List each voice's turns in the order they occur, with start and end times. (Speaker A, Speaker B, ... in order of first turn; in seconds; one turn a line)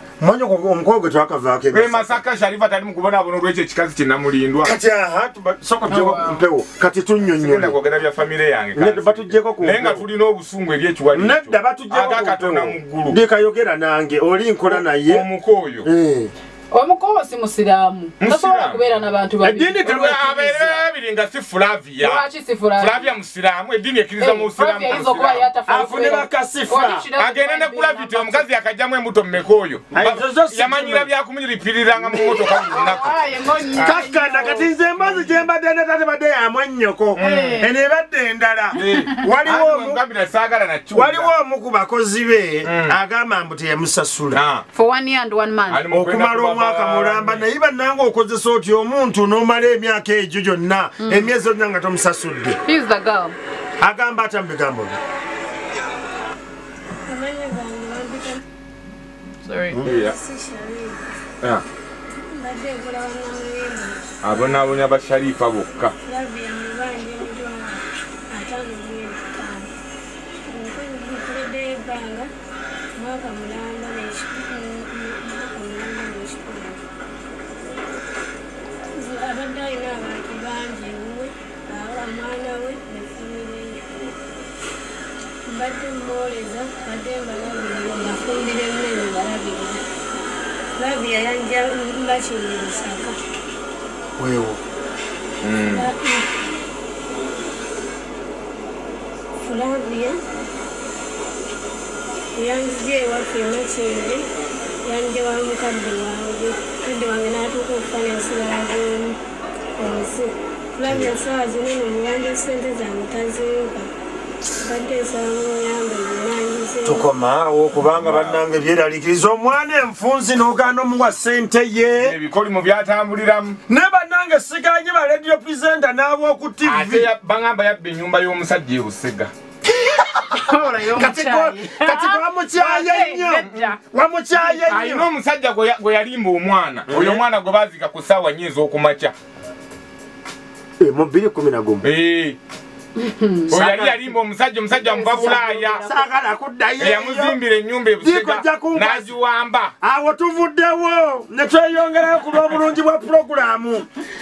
Speaker A: 0.2-2.2
Speaker B: 1.7-4.8
Speaker A: 4.6-7.8
Speaker B: 5.9-6.4
Speaker B: 7.4-13.2
Speaker A: 8.8-10.0
Speaker A: 11.1-15.3
Speaker B: 14.7-15.9
Speaker A: 15.8-16.3
Speaker C: 16.7-19.8
Speaker B: 18.2-18.8
Speaker A: 19.4-20.9
Speaker B: 19.8-22.2
Speaker C: 22.0-23.1
Speaker B: 22.8-25.5
Speaker C: 24.2-28.5
Speaker A: 25.7-27.1
Speaker B: 27.2-33.2
Speaker A: 29.9-31.1
Speaker C: 32.1-35.1
Speaker B: 33.7-34.0
Speaker A: 33.8-40.0
Speaker B: 37.1-37.6
Speaker C: 37.2-37.7
Speaker B: 38.7-41.3
Speaker C: 38.8-39.0
Speaker A: 40.9-44.4
Speaker B: 42.6-43.0
Speaker B: 44.3-44.6
Speaker C: 44.7-45.8
Speaker B: 45.7-47.5
Speaker A: 45.9-52.6
Speaker C: 51.0-51.3
Speaker C: 52.7-53.4
Speaker A: 53.8-55.0
Speaker D: 57.0-58.4
Speaker C: 59.4-59.8
Speaker B: 59.8-60.2
Speaker D: 59.8-61.1
Speaker D: 62.1-64.6
Speaker B: 64.2-65.9
Speaker D: 66.1-69.7
Speaker D: 70.4-72.3
Speaker D: 73.0-76.8
Speaker D: 79.0-84.1
Speaker D: 85.5-89.8
Speaker D: 90.8-93.2
Speaker A: 94.2-94.6
Speaker B: 95.4-95.9
Speaker D: 95.6-96.5
Speaker D: 99.4-100.2
Speaker D: 102.3-104.3
Speaker D: 104.8-109.2
Speaker D: 109.8-113.9
Speaker A: 110.8-111.2
Speaker D: 114.6-117.1
Speaker A: 116.8-122.2
Speaker B: 117.9-118.4
Speaker B: 122.0-123.6
Speaker A: 123.7-127.1
Speaker B: 126.6-129.3
Speaker C: 130.1-133.8
Speaker A: 130.9-135.1
Speaker B: 133.5-133.7
Speaker B: 134.5-139.1
Speaker A: 136.9-137.2
Speaker A: 140.8-141.8
Speaker B: 141.8-142.4
Speaker C: 143.0-143.5
Speaker A: 143.5-144.1
Speaker B: 143.5-145.9
Speaker A: 144.9-147.4
Speaker C: 145.1-146.0
Speaker B: 146.8-149.7
Speaker A: 148.0-149.1
Speaker A: 149.8-153.9